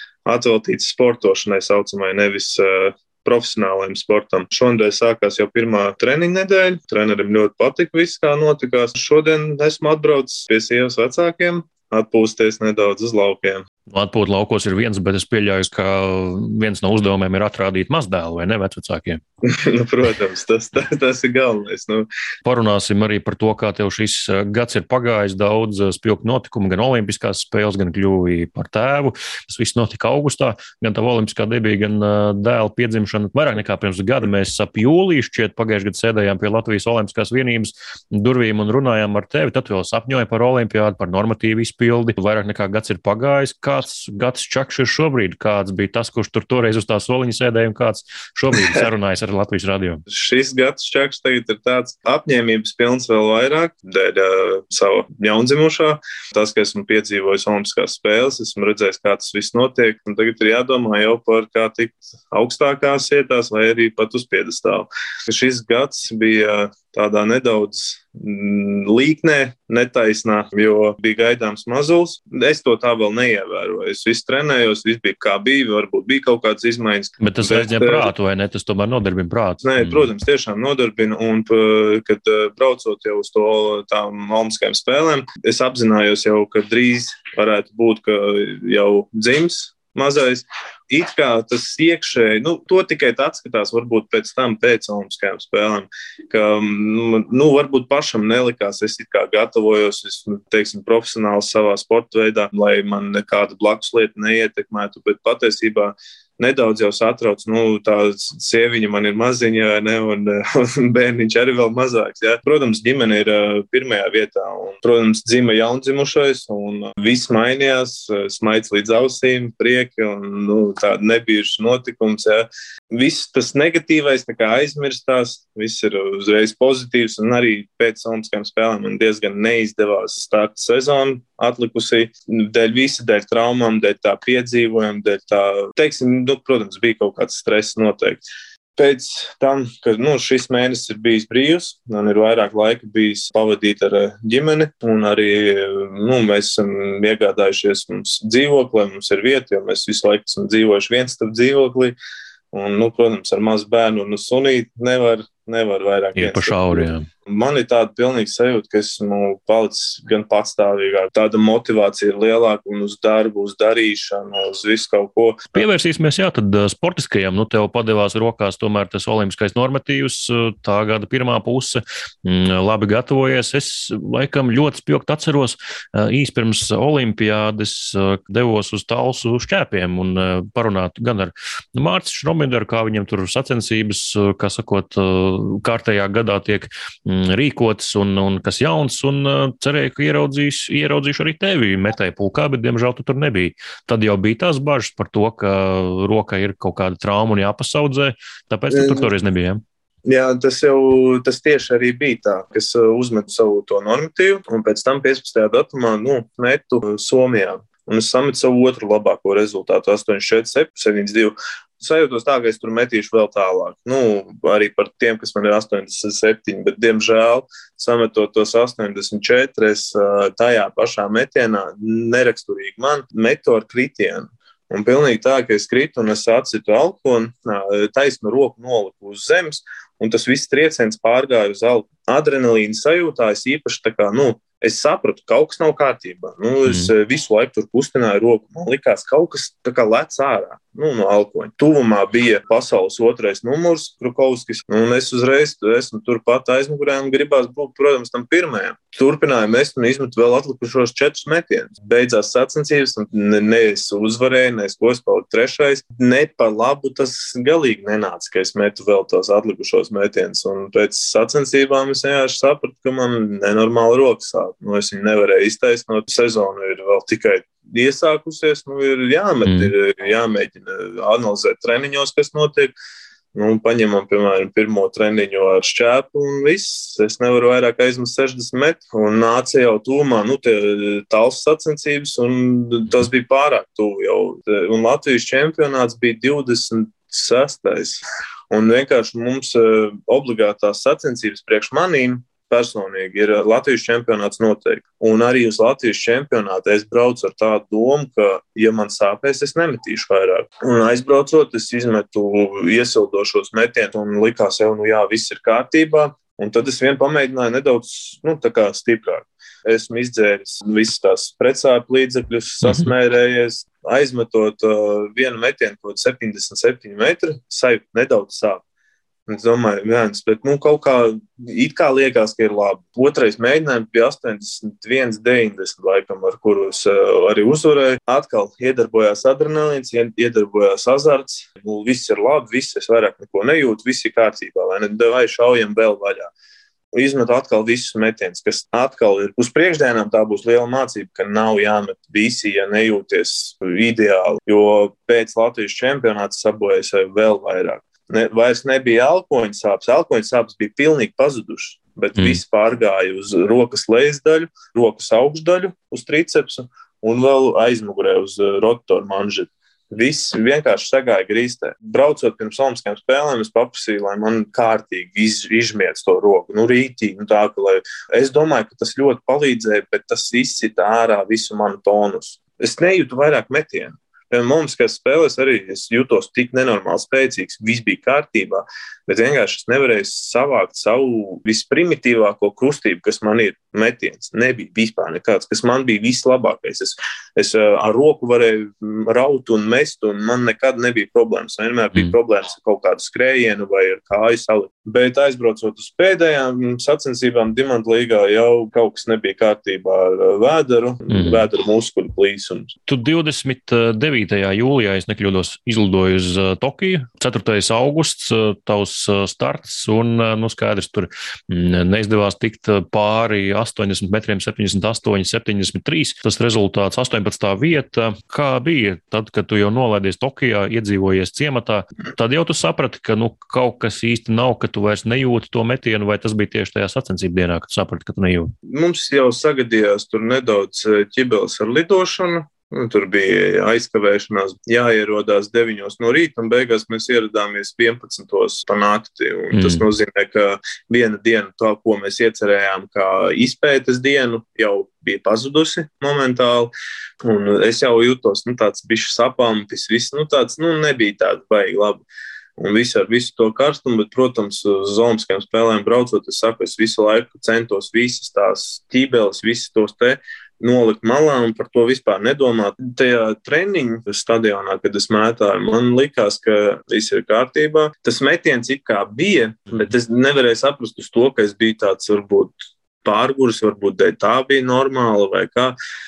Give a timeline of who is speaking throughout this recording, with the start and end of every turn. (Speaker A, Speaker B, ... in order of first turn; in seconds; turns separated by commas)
Speaker A: 0.2-13.6, Speaker B: 13.9-19.2, Speaker A: 19.4-22.1, Speaker B: 22.4-50.0, Speaker A: 50.1-78.1, Speaker B: 77.2-80.1, Speaker A: 79.6-138.2, Speaker A: 138.7-151.9, Speaker A: 152.5-165.6, Speaker B: 156.2-157.1, Speaker B: 165.5-199.6, Speaker A: 198.7-199.1, Speaker A: 200.1-272.7, Speaker B: 236.7-236.9, Speaker B: 269.4-269.7, Speaker A: 273.3-318.6, Speaker B: 312.6-312.9, Speaker A: 319.3-336.3, Speaker A: 336.9-402.7, Speaker B: 401.1-401.4, Speaker B: 402.9-428.5, Speaker A: 428.6-446.7, Speaker B: 439.5-439.9, Speaker A: 447.2-452.0, Speaker A: 452.6-475.7